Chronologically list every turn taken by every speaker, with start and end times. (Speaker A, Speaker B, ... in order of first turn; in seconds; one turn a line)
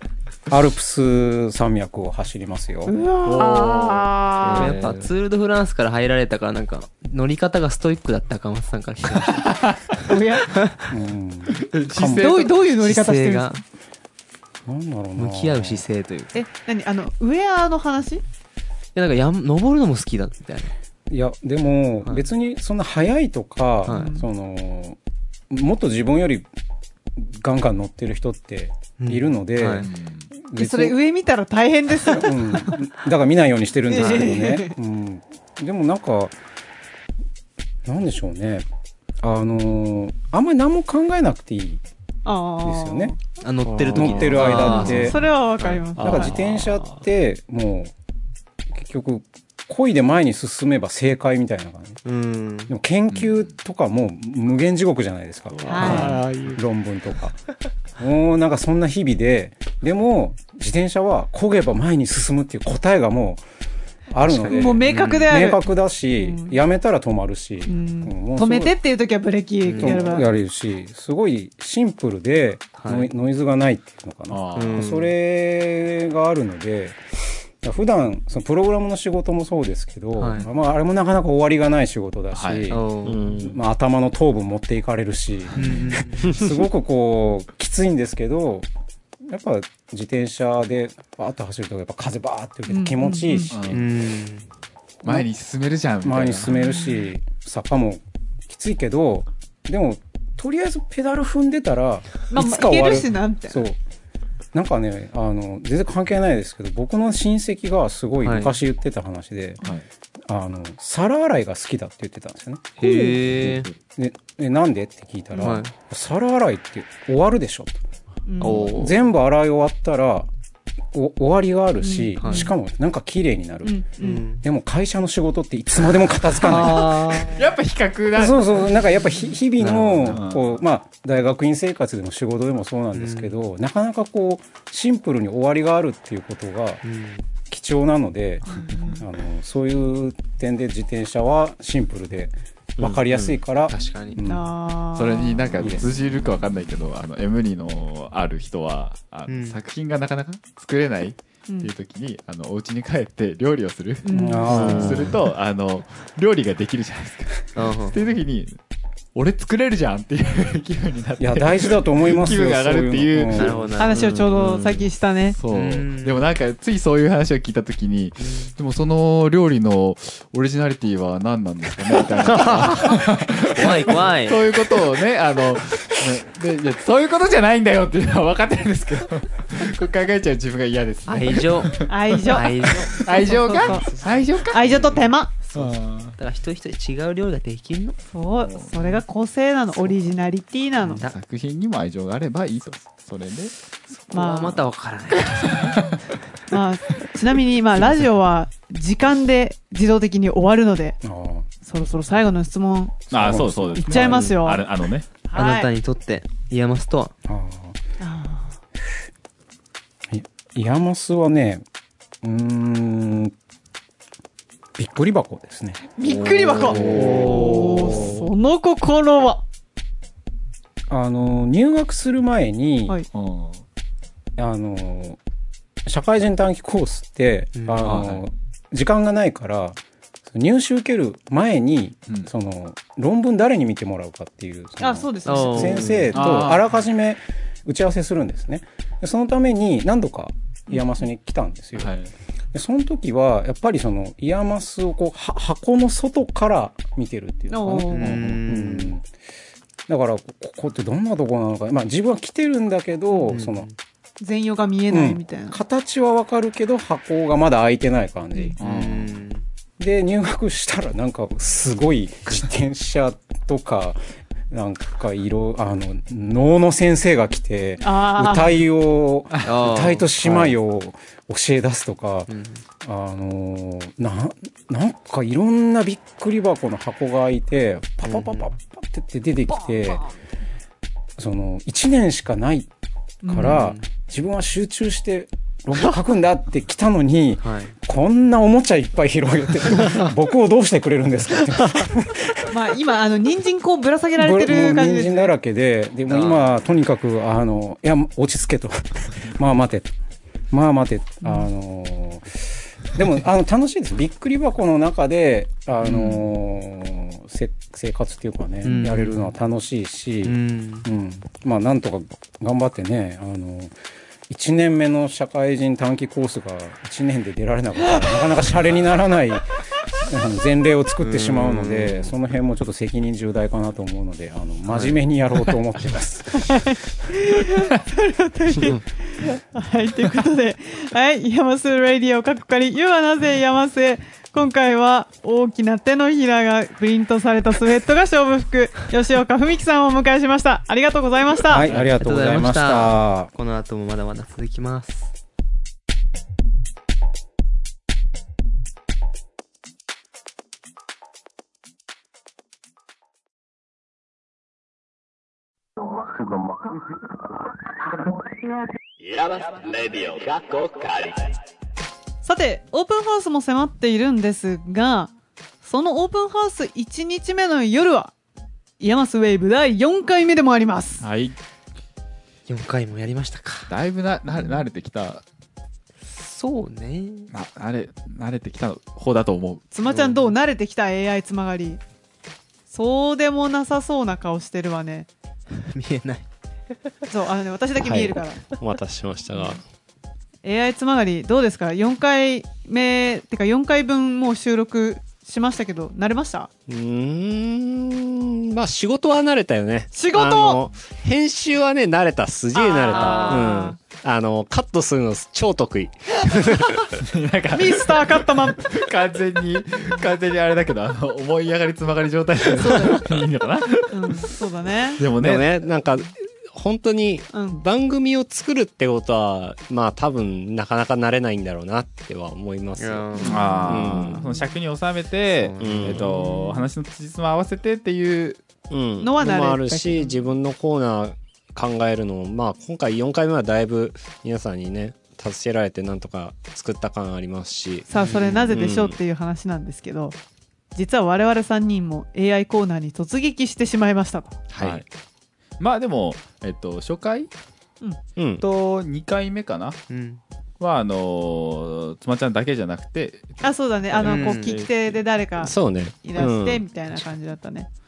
Speaker A: 0.5-2.9
Speaker B: 2.9-4.0
Speaker C: 3.2-4.7
Speaker D: 3.6-5.1
Speaker E: 4.5-9.5
Speaker C: 9.3-9.8
Speaker B: 10.1-10.5
Speaker E: 10.5-10.9
Speaker A: 10.9-12.3
Speaker C: 11.6-12.5
Speaker B: 12.2-13.6
Speaker E: 12.8-13.6
Speaker A: 14.7-15.8
Speaker E: 15.2-16.4
Speaker B: 16.3-18.2
Speaker E: 18.9-20.7
Speaker A: 21.1-25.0
Speaker E: 23.8-24.1
Speaker B: 23.9-24.2
Speaker A: 25.5-26.5
Speaker A: 27.1-31.0
Speaker E: 29.0-29.9
Speaker C: 29.8-30.3
Speaker B: 30.6-32.8
Speaker A: 32.0-36.4
Speaker B: 33.9-34.7
Speaker A: 37.8-38.6
Speaker A: 39.2-41.8
Speaker B: 42.2-43.2
Speaker A: 42.6-43.1
Speaker E: 43.4-45.8
Speaker D: 43.6-45.1
Speaker A: 43.9-45.2
Speaker B: 44.4-46.3
Speaker D: 46.0-47.0
Speaker A: 46.0-47.9
Speaker A: 48.7-52.0
Speaker E: 52.0-52.7
Speaker A: 52.7-57.4
Speaker C: 53.1-53.5
Speaker D: 55.6-56.6
Speaker B: 55.7-56.2
Speaker A: 58.0-63.4
Speaker A: 64.1-68.7
Speaker B: 64.3-66.6
Speaker E: 64.8-65.3
Speaker B: 67.7-70.3
Speaker E: 69.6-70.2
Speaker A: 69.8-77.0
Speaker E: 72.8-73.1
Speaker C: 74.3-74.9
Speaker E: 74.5-75.1
Speaker A: 77.6-88.7
Speaker E: 80.2-80.5
Speaker C: 82.3-82.8
Speaker E: 82.7-83.2
Speaker D: 83.0-83.6
Speaker E: 85.5-86.3
Speaker A: 89.2-93.7
Speaker B: 92.7-93.5
Speaker C: 93.5-93.8
Speaker E: 93.7-94.5
Speaker A: 95.0-95.3
Speaker C: 95.0-96.6
Speaker A: 96.0-103.8
Speaker B: 96.5-97.1
Speaker B: 102.3-103.6
Speaker A: 104.5-109.6
Speaker E: 108.2-108.5
Speaker A: 110.3-117.8
Speaker E: 112.8-113.7
Speaker E: 115.4-115.7
Speaker B: 118.3-118.6
Speaker E: 118.4-119.0
Speaker C: 118.4-118.7
Speaker A: 118.5-120.3
Speaker A: 120.9-127.4
Speaker B: 121.8-122.5
Speaker E: 122.2-122.5
Speaker B: 123.6-124.2
Speaker E: 124.0-124.4
Speaker D: 126.5-127.4
Speaker C: 126.7-128.8
Speaker A: 128.1-136.8
Speaker E: 129.6-130.2
Speaker C: 130.0-130.6
Speaker E: 132.9-133.4
Speaker E: 136.8-137.3
Speaker A: 137.5-144.5
Speaker B: 138.5-139.0
Speaker D: 142.8-143.4
Speaker E: 143.7-144.2
Speaker B: 144.2-145.8
Speaker C: 144.9-158.6
Speaker A: 145.6-145.9
Speaker E: 149.3-149.6
Speaker B: 154.0-154.5
Speaker A: 154.1-155.1
Speaker D: 154.5-155.2
Speaker E: 157.5-158.0
Speaker C: 159.1-163.6
Speaker A: 161.2-163.6
Speaker E: 163.3-164.1
Speaker B: 163.8-165.4
Speaker D: 163.9-164.8
Speaker C: 165.3-184.9
Speaker E: 165.5-166.2
Speaker E: 168.2-168.5
Speaker D: 172.2-173.0
Speaker E: 173.5-174.4
Speaker E: 181.1-188.0
Speaker B: 181.9-183.9
Speaker B: 184.5-185.3
Speaker C: 185.5-186.2
Speaker B: 188.1-191.0
Speaker C: 188.4-189.0
Speaker C: 190.8-193.5
Speaker E: 193.9-195.7
Speaker B: 194.1-194.6
Speaker C: 195.3-195.9
Speaker B: 196.5-201.0
Speaker A: 201.0-201.5
Speaker B: 201.6-203.1
Speaker A: 203.1-204.2
Speaker C: 203.1-205.1
Speaker B: 203.8-204.6
Speaker B: 205.3-205.7
Speaker E: 205.3-207.1
Speaker A: 207.3-207.8
Speaker B: 208.0-208.5
Speaker A: 210.1-211.6
Speaker A: 212.2-213.3
Speaker A: 214.8-215.8
Speaker B: 216.0-219.4
Speaker C: 216.1-218.0
Speaker D: 216.7-218.0
Speaker A: 216.9-217.8
Speaker A: 220.9-223.0
Speaker C: 223.1-223.6
Speaker A: 224.4-225.2
Speaker A: 225.8-241.9
Speaker E: 227.5-228.1
Speaker C: 227.8-228.2
Speaker B: 234.8-236.1
Speaker E: 235.2-236.1
Speaker C: 236.1-236.7
Speaker C: 241.7-242.1
Speaker A: 242.5-249.0
Speaker B: 247.5-248.2
Speaker E: 247.9-248.9
Speaker A: 249.9-253.7
Speaker E: 253.3-253.7
Speaker B: 254.2-255.6
Speaker A: 254.9-258.6
Speaker C: 258.6-259.1
Speaker E: 258.6-259.4
Speaker A: 259.8-272.3
Speaker B: 267.8-268.6
Speaker C: 269.3-269.6
Speaker E: 269.4-270.5
Speaker E: 272.3-272.6
Speaker A: 272.8-280.1
Speaker E: 278.0-278.5
Speaker A: 281.2-282.7
Speaker B: 283.2-283.6
Speaker A: 283.2-292.6
Speaker E: 283.3-283.9
Speaker E: 287.4-287.7
Speaker B: 292.5-295.3
Speaker A: 294.1-299.9
Speaker E: 296.1-296.5
Speaker A: 300.5-313.7
Speaker C: 305.8-306.2
Speaker E: 308.6-309.3
Speaker E: 310.2-310.9
Speaker A: 314.3-326.7
Speaker E: 321.0-322.1
Speaker E: 324.7-325.0
Speaker B: 326.4-341.7
Speaker A: 341.5-343.3
Speaker E: 341.6-345.1
Speaker B: 362.2-365.1
Speaker B: 365.6-368.1
Speaker B: 368.8-371.0
Speaker C: 371.0-371.4
Speaker E: 372.5-373.7
Speaker C: 373.7-375.2
Speaker E: 376.1-377.3
Speaker C: 377.3-379.6
Speaker B: 379.7-381.8
Speaker E: 379.8-380.3
Speaker B: 382.7-385.1
Speaker E: 385.6-386.3
Speaker B: 387.1-388.4
Speaker D: 387.8-389.6
Speaker B: 390.4-396.5
Speaker D: 396.7-407.0
Speaker B: 399.9-400.6
Speaker B: 402.5-403.8
Speaker E: 402.9-403.5
Speaker C: 407.0-414.3
Speaker B: 407.5-408.8
Speaker B: 412.5-413.2
Speaker B: 413.9-415.0
Speaker C: 415.0-415.7
Speaker D: 415.1-424.3
Speaker B: 417.3-417.6
Speaker E: 422.8-424.0
Speaker C: 423.2-428.4
Speaker B: 423.2-424.5
Speaker E: 425.3-426.3
Speaker D: 425.6-426.1
Speaker D: 428.7-439.0
Speaker B: 429.0-430.2
Speaker B: 437.9-440.1
Speaker E: 437.9-438.5
Speaker B: 440.7-444.4
Speaker D: 444.5-444.8
Speaker C: 444.6-444.8
Speaker C: 445.6-447.3
Speaker D: 448.1-448.4
Speaker C: 448.4-449.8
Speaker E: 449.9-450.2
Speaker C: 450.6-455.0
Speaker B: 453.4-457.7
Speaker E: 454.0-454.6
Speaker D: 455.4-456.6